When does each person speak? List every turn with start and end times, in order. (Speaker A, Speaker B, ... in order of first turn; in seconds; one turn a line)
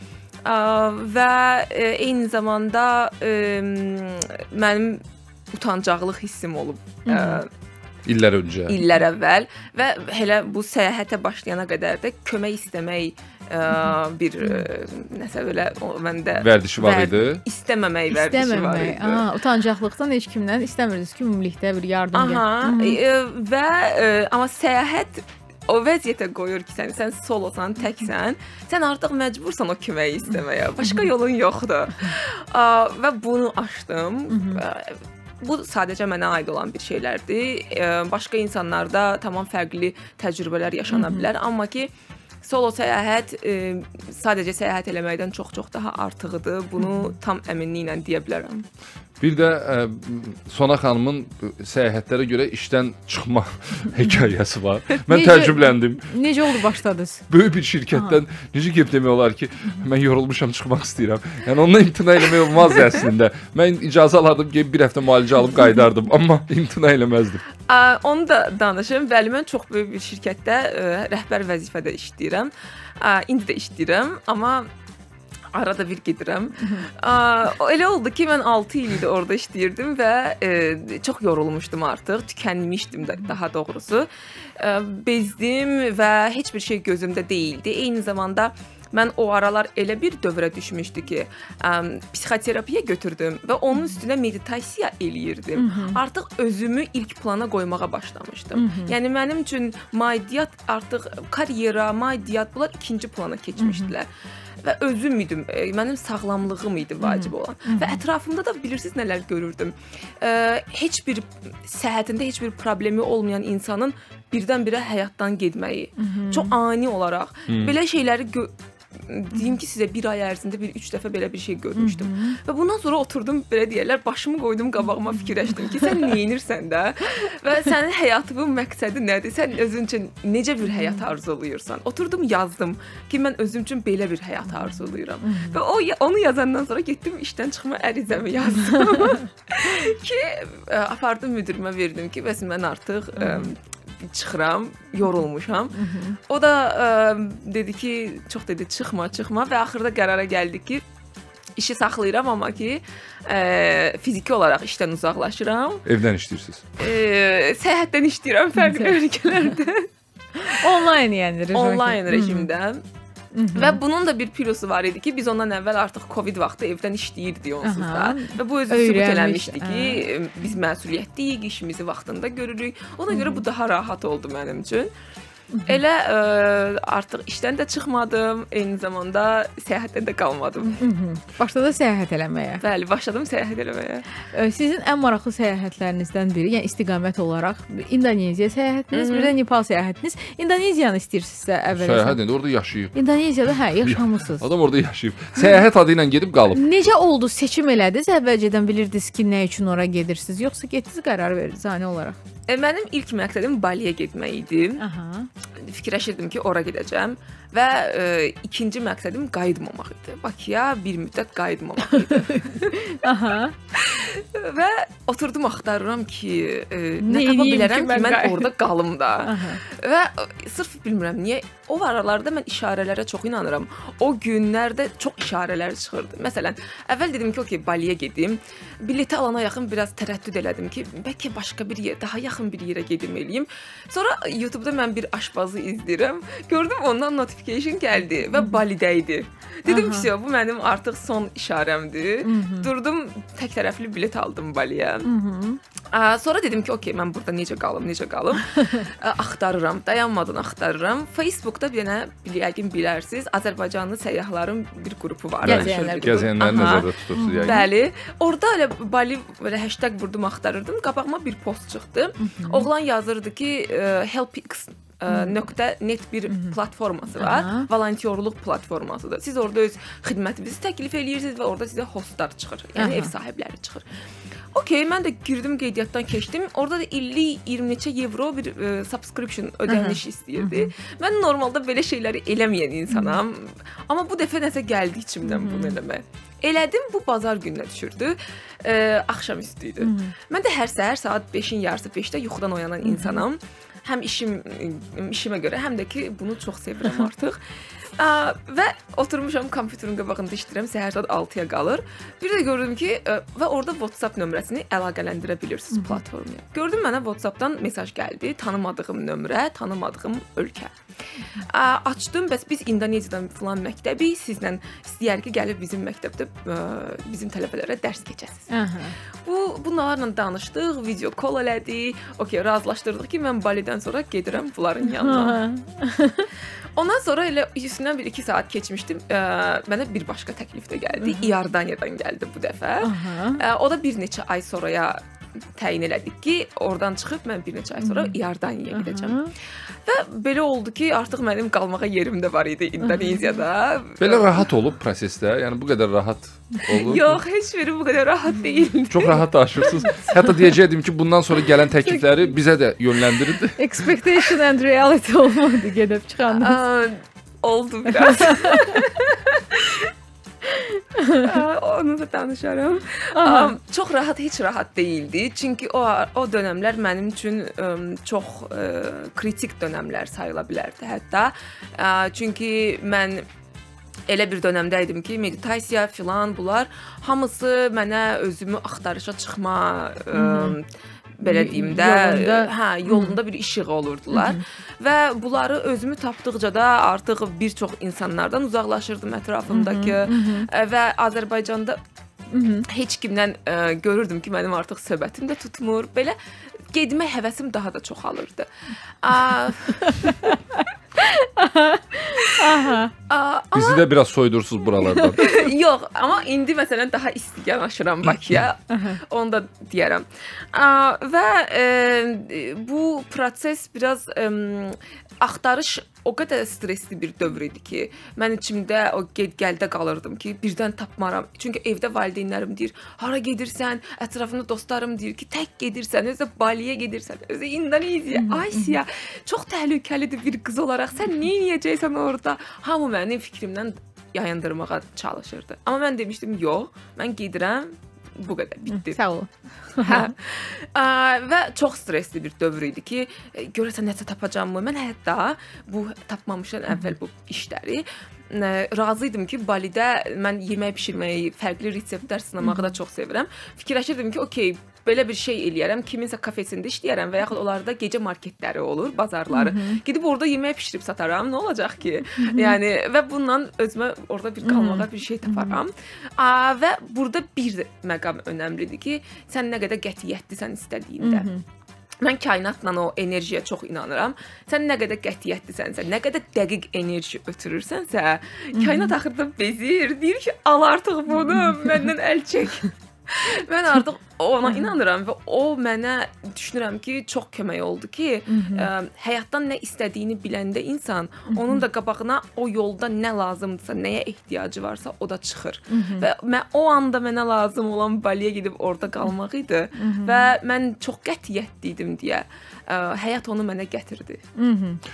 Speaker A: 0.5-5.0
Speaker A: 5.5-7.5
Speaker B: 7.1-7.4
Speaker C: 8.1-8.8
Speaker A: 8.7-19.2
Speaker C: 16.4-17.4
Speaker B: 18.1-23.0
Speaker A: 22.1-41.9
Speaker B: 30.8-31.1
Speaker B: 34.3-34.6
Speaker B: 40.9-41.2
Speaker A: 42.4-48.6
Speaker B: 46.8-47.1
Speaker C: 49.2-56.1
Speaker B: 55.1-57.2
Speaker C: 57.3-67.4
Speaker B: 57.9-58.2
Speaker A: 67.7-74.7
Speaker A: 75.5-104.1
Speaker B: 95.6-96.0
Speaker B: 98.5-98.9
Speaker B: 103.6-103.9
Speaker A: 104.6-118.5
Speaker B: 107.0-108.0
Speaker B: 116.0-116.5
Speaker C: 117.5-117.8
Speaker A: 119.1-145.8
Speaker B: 121.8-122.4
Speaker B: 130.7-131.0
Speaker B: 135.2-135.6
Speaker B: 138.8-139.2
Speaker B: 143.2-143.5
Speaker B: 145.7-146.2
Speaker A: 146.3-150.8
Speaker A: 151.6-155.8
Speaker C: 155.9-156.7
Speaker A: 156.8-159.9
Speaker B: 158.6-159.5
Speaker B: 160.4-162.5
Speaker A: 161.5-162.8
Speaker B: 163.3-163.8
Speaker A: 163.6-174.9
Speaker B: 167.6-170.1
Speaker B: 173.1-173.4
Speaker B: 175.5-175.8
Speaker A: 175.7-180.8
Speaker B: 180.8-182.6
Speaker A: 182.6-184.1
Speaker B: 184.3-192.2
Speaker A: 188.9-189.3
Speaker C: 191.7-192.9
Speaker B: 192.9-194.5
Speaker C: 193.8-196.6
Speaker B: 196.5-202.2
Speaker A: 202.5-204.8
Speaker B: 204.8-205.3
Speaker A: 205.6-213.0
Speaker B: 212.4-213.6
Speaker A: 213.7-245.1
Speaker B: 217.0-218.5
Speaker B: 219.2-219.6
Speaker B: 238.3-238.6
Speaker B: 239.7-240.1
Speaker B: 242.2-242.7
Speaker B: 245.1-245.6
Speaker A: 245.9-256.9
Speaker B: 255.4-257.7
Speaker C: 255.4-257.6
Speaker A: 257.4-273.8
Speaker B: 262.2-262.7
Speaker B: 265.1-265.4
Speaker B: 266.3-266.6
Speaker B: 267.2-267.7
Speaker B: 272.8-273.1
Speaker A: 274.5-297.4
Speaker B: 279.7-280.7
Speaker B: 282.9-283.2
Speaker B: 285.2-285.8
Speaker B: 289.8-290.1
Speaker B: 292.8-293.2
Speaker A: 298.0-310.7
Speaker B: 305.7-306.0
Speaker A: 311.4-318.5
Speaker B: 318.5-318.9
Speaker A: 319.2-325.4
Speaker B: 324.9-326.3
Speaker A: 326.8-335.0
Speaker B: 331.0-331.3
Speaker B: 332.8-333.4
Speaker A: 335.6-339.2
Speaker B: 337.8-338.1
Speaker B: 338.7-339.3
Speaker A: 339.9-344.3
Speaker B: 342.8-343.4
Speaker C: 344.0-347.2
Speaker A: 346.7-349.2
Speaker C: 348.9-353.9
Speaker B: 353.6-356.6
Speaker A: 356.4-359.9
Speaker B: 357.9-358.8
Speaker B: 361.0-361.3
Speaker A: 361.2-373.2
Speaker B: 363.2-363.6
Speaker A: 374.1-380.6
Speaker B: 380.1-380.6
Speaker A: 381.2-391.8
Speaker B: 381.2-383.2
Speaker B: 384.1-384.4
Speaker B: 389.5-390.5
Speaker B: 392.3-392.6
Speaker A: 392.7-396.2
Speaker A: 396.7-398.5
Speaker A: 399.0-400.3
Speaker B: 399.7-402.9
Speaker A: 403.1-403.9
Speaker C: 403.5-405.3
Speaker A: 405.2-439.0
Speaker B: 408.7-409.0
Speaker B: 428.1-428.8
Speaker B: 438.7-440.1
Speaker A: 439.8-471.3
Speaker B: 452.4-452.7
Speaker B: 459.3-459.8
Speaker B: 462.2-462.6
Speaker B: 464.4-465.6
Speaker B: 471.0-471.4
Speaker A: 472.0-504.2
Speaker B: 478.6-478.9
Speaker B: 481.3-481.8
Speaker B: 484.5-484.7
Speaker B: 488.3-488.7
Speaker B: 491.3-491.6
Speaker B: 495.7-496.1
Speaker B: 499.8-500.3
Speaker B: 504.4-504.8